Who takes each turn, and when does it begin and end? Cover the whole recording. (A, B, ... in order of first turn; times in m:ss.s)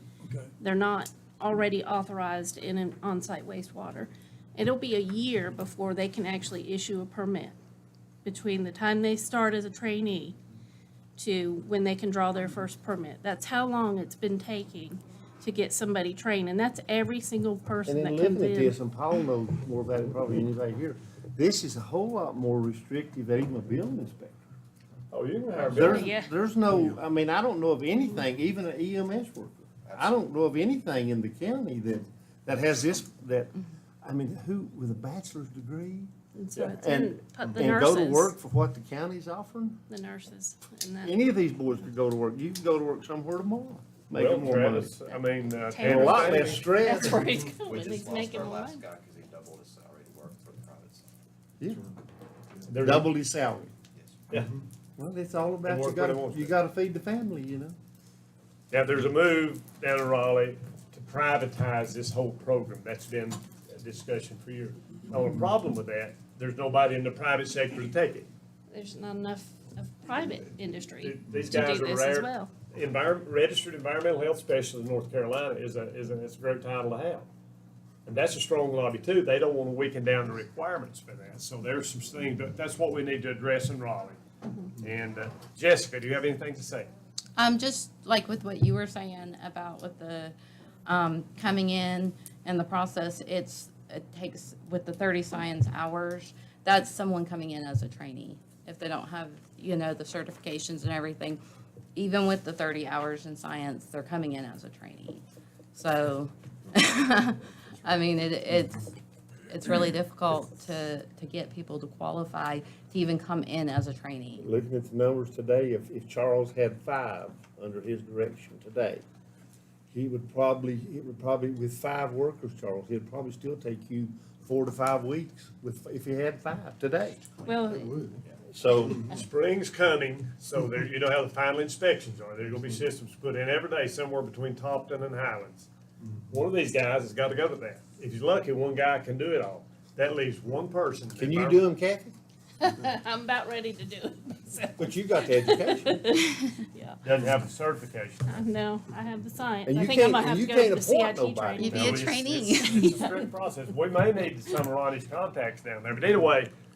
0:00.6-0:07.6 A
0:08.2-0:10.4 A
0:11.2-0:18.8 A
0:17.9-0:24.4 B
0:25.1-0:26.1 C
0:25.6-0:39.8 B
0:25.8-0:26.3 A
0:29.9-0:30.2 D
0:36.4-0:38.3 A
0:39.9-0:41.2 A
0:41.0-0:45.0 B
0:44.1-0:46.9 C
0:45.1-0:48.8 A
0:45.8-0:47.3 B
0:47.6-0:51.1 D
0:51.6-0:51.9 B
0:52.7-0:53.1 C
0:52.8-0:53.7 B
0:54.3-0:54.6 C
0:55.0-0:57.8 B
0:55.6-0:56.5 C
0:58.7-1:08.3 C
1:08.7-1:12.5 A
1:11.0-1:17.3 C
1:18.1-1:24.2 C
1:24.8-1:26.9 C
1:27.4-1:30.4 E
1:30.9-1:41.4 E
1:42.0-1:45.2 E
1:45.7-1:48.9 E
1:49.5-1:54.5 E
1:54.4-1:59.0 B
1:59.9-2:07.3 B
2:07.4-2:08.2 A
2:08.5-2:09.1 B
2:09.0-2:15.7 C
2:16.3-2:21.6 C
2:21.2-2:22.1 B
2:22.6-2:27.0 A
2:24.8-2:26.0 B
2:27.0-2:28.5 C
2:28.3-2:32.1 A
2:29.7-2:31.9 B
2:31.6-2:32.9 E
2:31.7-2:36.5 C
2:32.6-2:33.3 A